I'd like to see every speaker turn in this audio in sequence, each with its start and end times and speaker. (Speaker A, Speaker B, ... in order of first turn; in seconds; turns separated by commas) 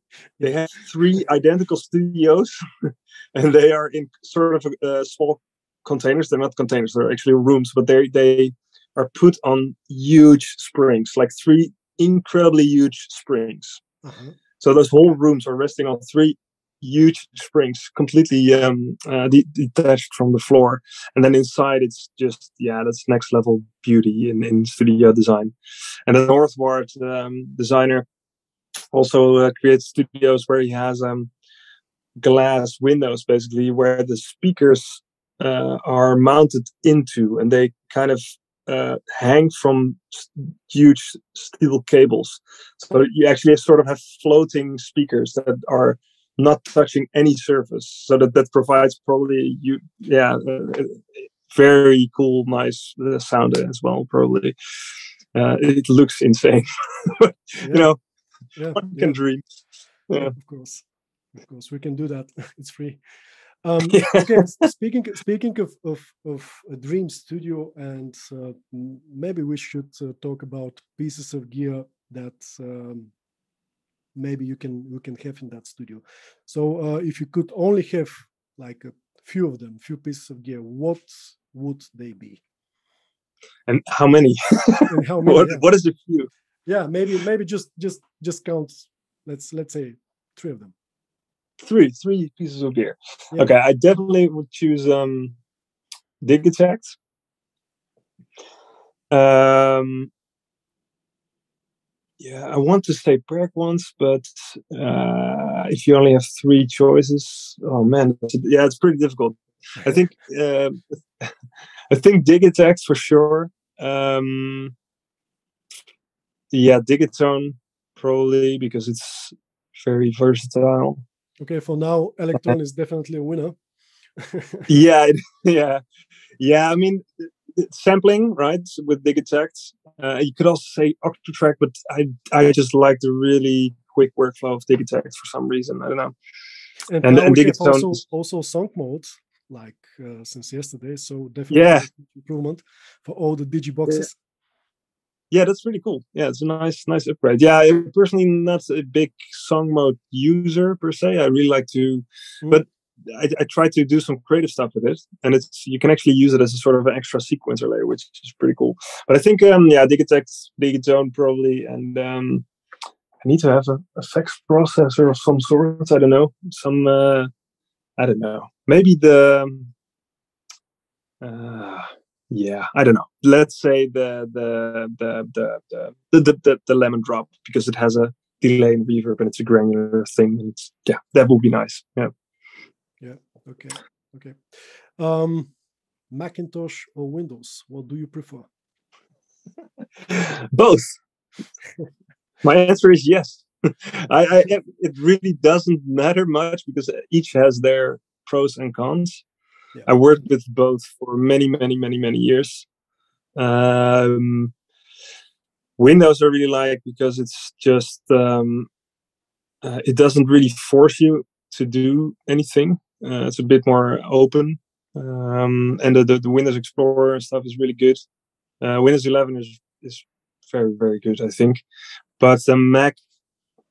Speaker A: 0.4-13.8, Speaker B: 14.0-14.4, Speaker A: 14.6-25.5, Speaker A: 26.1-28.1, Speaker A: 28.9-31.3, Speaker A: 32.2-54.5, Speaker A: 55.3-58.0, Speaker B: 57.6-57.9, Speaker B: 58.6-59.2, Speaker A: 58.8-59.4, Speaker B: 60.1-60.8, Speaker B: 61.4-63.0, Speaker B: 63.6-73.1, Speaker A: 63.9-64.4, Speaker B: 74.2-82.4, Speaker A: 83.7-86.3, Speaker B: 84.9-85.7, Speaker B: 86.7-90.8, Speaker A: 91.6-95.4, Speaker A: 96.2-97.0, Speaker A: 99.1-100.1, Speaker A: 102.2-111.3, Speaker A: 111.9-114.7, Speaker A: 116.5-121.0, Speaker B: 121.4-123.6, Speaker B: 124.2-124.7, Speaker A: 124.7-125.8, Speaker A: 126.4-136.2, Speaker B: 136.9-144.2, Speaker A: 137.0-138.0, Speaker A: 141.5-141.9, Speaker A: 145.3-162.5, Speaker A: 163.2-167.3, Speaker A: 168.0-169.7, Speaker A: 171.2-182.1, Speaker B: 183.0-185.5, Speaker B: 186.1-188.5, Speaker A: 190.1-191.0, Speaker A: 192.4-199.2, Speaker A: 199.9-202.7, Speaker A: 203.4-204.5, Speaker A: 205.8-208.7, Speaker A: 209.6-218.0, Speaker A: 218.6-221.6, Speaker A: 222.2-223.0